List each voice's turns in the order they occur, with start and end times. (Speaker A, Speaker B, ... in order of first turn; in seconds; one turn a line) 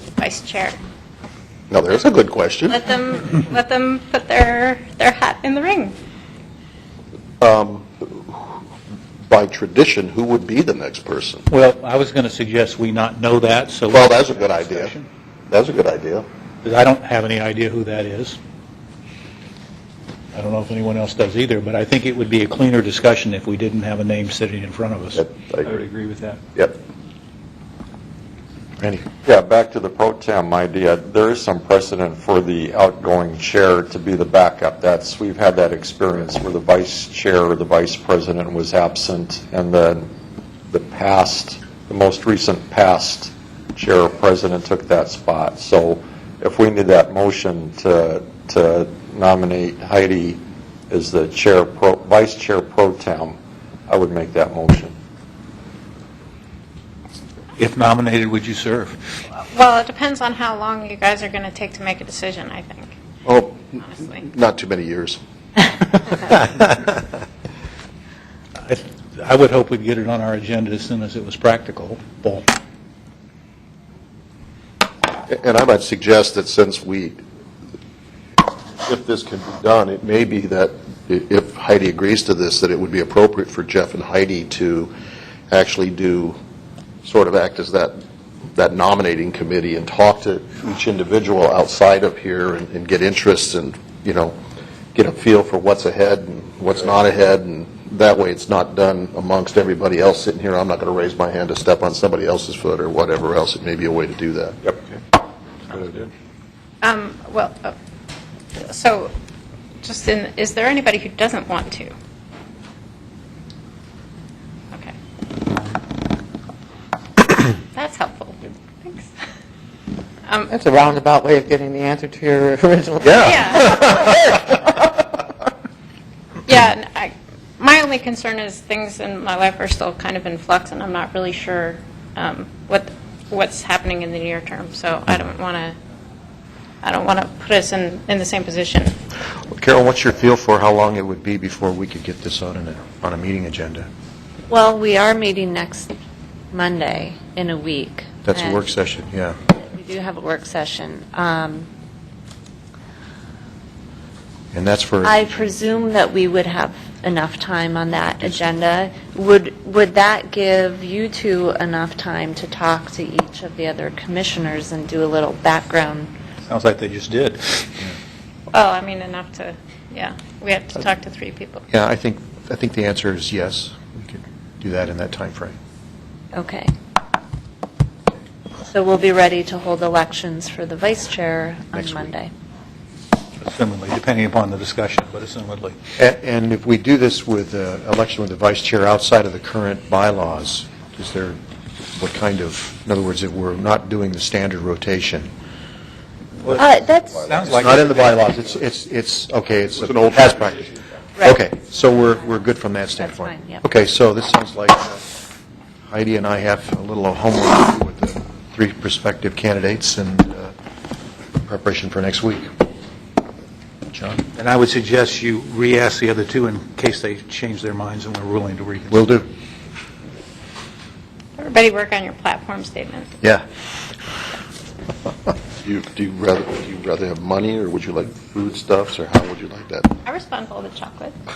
Speaker A: 0.2-0.8
Speaker B: 1.7-2.8
Speaker A: 2.7-6.0
Speaker B: 7.4-8.6
Speaker B: 9.3-11.5
Speaker C: 11.5-15.1
Speaker B: 13.9-14.9
Speaker B: 15.5-16.3
Speaker C: 16.6-18.4
Speaker C: 20.3-26.4
Speaker B: 25.1-25.7
Speaker D: 28.8-29.1
Speaker E: 29.2-40.1
Speaker E: 40.7-55.0
Speaker C: 57.6-59.0
Speaker A: 59.5-62.9
Speaker B: 63.2-65.2
Speaker A: 63.8-64.2
Speaker B: 66.0-66.3
Speaker C: 68.6-72.5
Speaker B: 75.3-77.2
Speaker B: 78.8-84.9
Speaker B: 85.5-86.4
Speaker B: 87.0-88.0
Speaker B: 88.5-94.4
Speaker B: 95.0-104.6
Speaker B: 105.7-106.1
Speaker A: 106.8-107.7
Speaker A: 108.6-109.1
Speaker A: 109.8-111.9
Speaker A: 117.7-119.1
Speaker A: 120.3-120.5
Speaker F: 120.5-123.2
Speaker A: 123.1-124.2
Speaker A: 126.5-135.8
Speaker A: 136.8-138.9
Speaker D: 139.5-143.9
Speaker G: 144.5-145.9
Speaker G: 146.5-148.7
Speaker D: 148.2-149.4
Speaker G: 149.6-151.7
Speaker D: 154.5-155.2
Speaker G: 155.0-166.1
Speaker C: 166.5-167.9
Speaker A: 168.5-171.6
Speaker D: 171.7-175.6
Speaker G: 176.3-176.7
Speaker G: 178.7-182.3
Speaker D: 181.7-182.1
Speaker C: 183.4-185.8
Speaker D: 186.0-191.4
Speaker D: 191.9-195.3
Speaker C: 196.4-198.2
Speaker G: 196.6-197.4
Speaker D: 197.4-205.0
Speaker B: 199.8-200.2
Speaker G: 201.2-201.4
Speaker G: 203.0-203.6
Speaker D: 205.9-210.5
Speaker D: 211.4-212.5
Speaker D: 213.9-214.2
Speaker C: 214.4-219.0
Speaker D: 218.9-219.3
Speaker A: 221.4-223.1
Speaker B: 225.6-229.9
Speaker A: 230.1-231.2